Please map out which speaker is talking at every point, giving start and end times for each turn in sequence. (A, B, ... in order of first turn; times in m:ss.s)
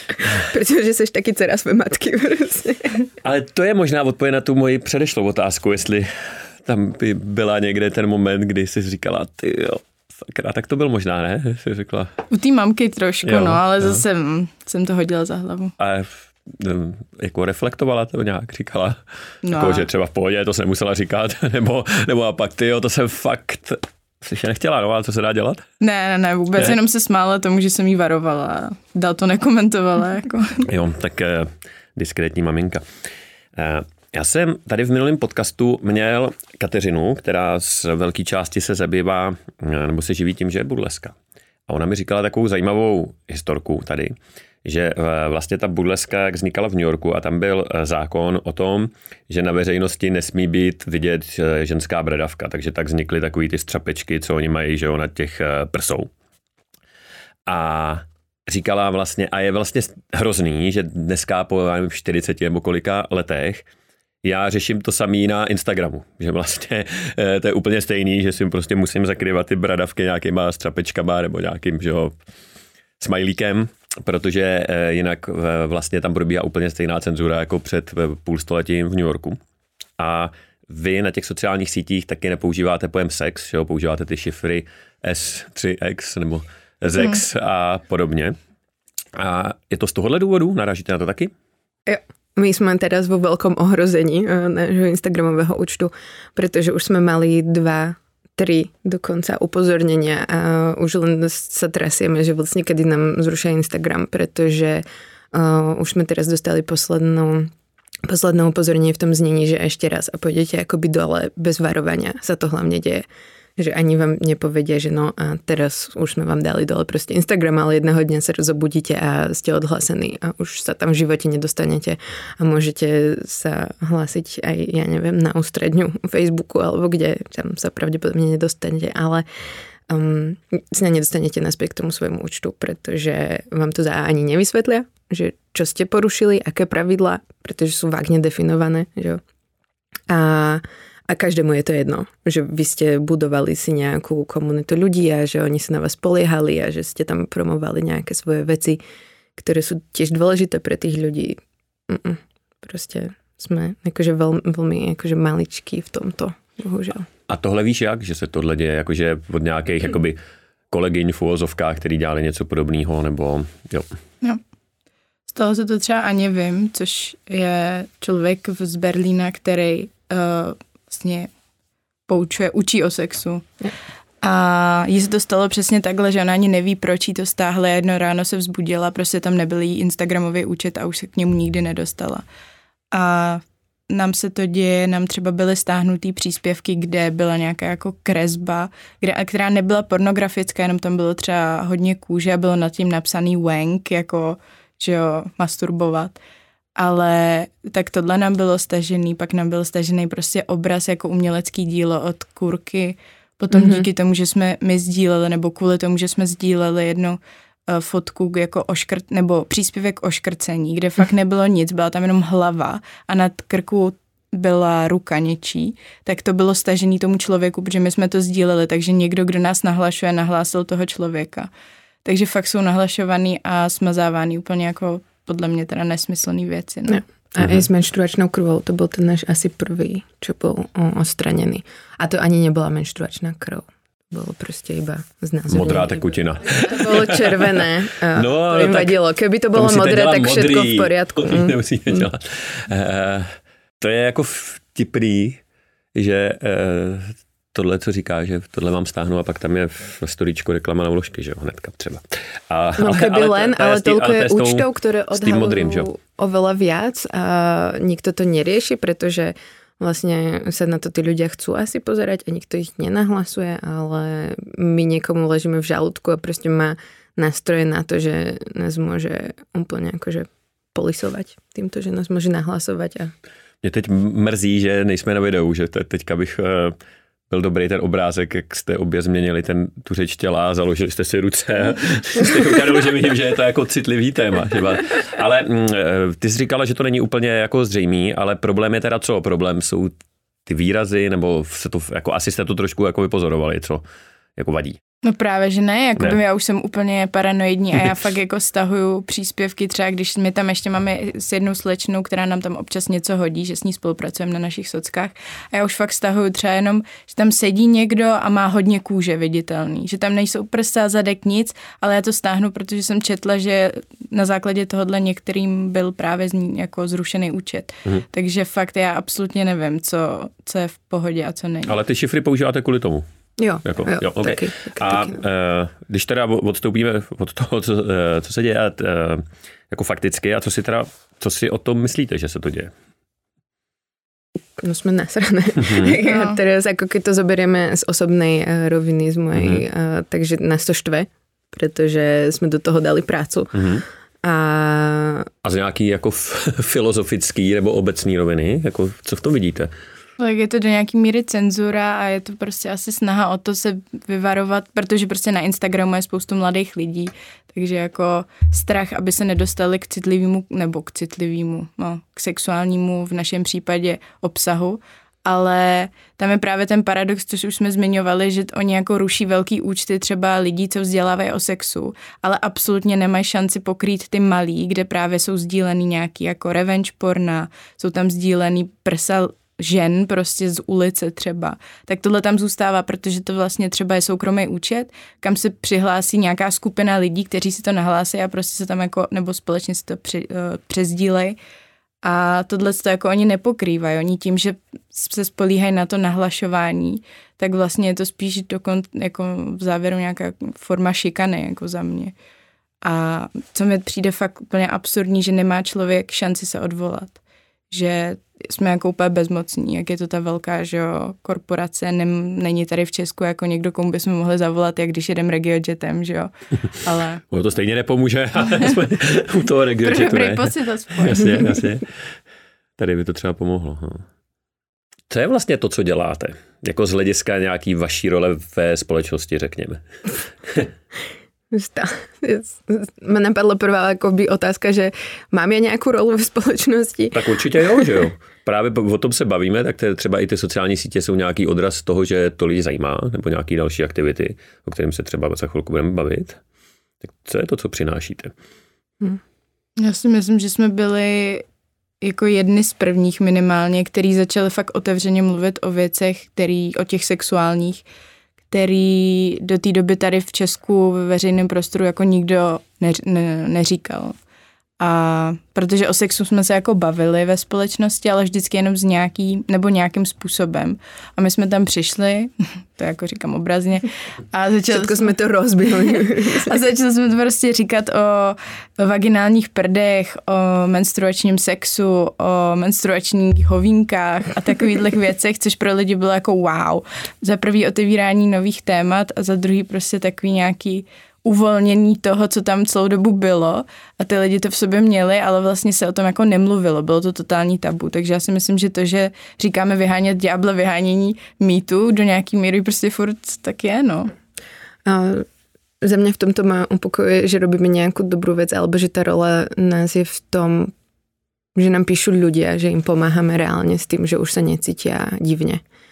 0:00.2-0:03.0 A
0:03.2-0:12.2 B
0:12.3-0:15.7 C
0:13.2-0:14.0 B
0:15.8-0:25.6 B
0:19.4-0:19.9 C
0:25.8-0:30.7 C
0:30.6-0:32.8 B
0:33.6-0:41.2 B
0:41.7-0:56.1 B
0:57.4-1:03.7 B
1:04.2-1:12.2 B
1:13.0-1:19.4 B
1:20.0-1:28.4 B
1:29.2-1:31.3 B
1:31.8-1:47.5 A
1:48.0-1:53.0 A
1:53.6-2:09.2 A
2:09.9-2:19.2 A
2:20.1-2:28.8 A
2:29.4-2:31.4 A
2:31.9-2:37.1 A
2:37.3-2:40.2 B
2:40.7-2:43.9 B
2:45.3-2:51.3 C
2:52.1-2:53.4 C
2:54.2-3:02.2 C
3:02.9-3:16.2 C
3:16.8-3:41.5 C
3:23.5-3:23.9 A
3:42.0-3:47.0 C
3:46.9-3:56.0 A
3:55.5-3:59.0 B
3:56.5-4:02.0 A
3:59.5-4:05.4 B
4:05.9-4:15.9 B
4:12.8-4:33.1 A
4:33.6-4:36.8 B
4:37.3-4:49.9 B
4:50.4-4:53.8 B
4:54.4-4:54.8 B
4:55.0-5:21.8 C
5:21.6-5:23.0 B
5:23.4-5:25.2 A
5:23.6-5:32.7 B
5:34.6-5:43.6 A
5:35.6-5:36.0 B
5:36.0-5:36.4 C
5:39.3-5:39.6 B
5:43.5-5:43.8 B
5:44.2-5:45.3 A
5:45.4-5:49.7 B
5:50.2-6:31.4 C
6:32.0-6:42.1 C
6:42.8-6:47.2 C
6:47.7-6:57.2 C
6:57.3-7:02.0 B
6:59.8-7:01.6 C
7:02.8-7:04.0 B
7:05.1-7:09.8 B
7:11.5-7:17.9 A
7:17.1-7:26.4 B
7:27.0-7:28.3 B
7:29.8-7:31.4 C
7:32.0-7:37.8 C
7:38.5-7:44.2 C
7:44.8-7:55.1 C
7:54.7-7:56.6 A
7:55.8-8:24.1 C
8:24.8-8:25.3 A
8:25.8-8:30.7 A
8:31.5-8:35.6 A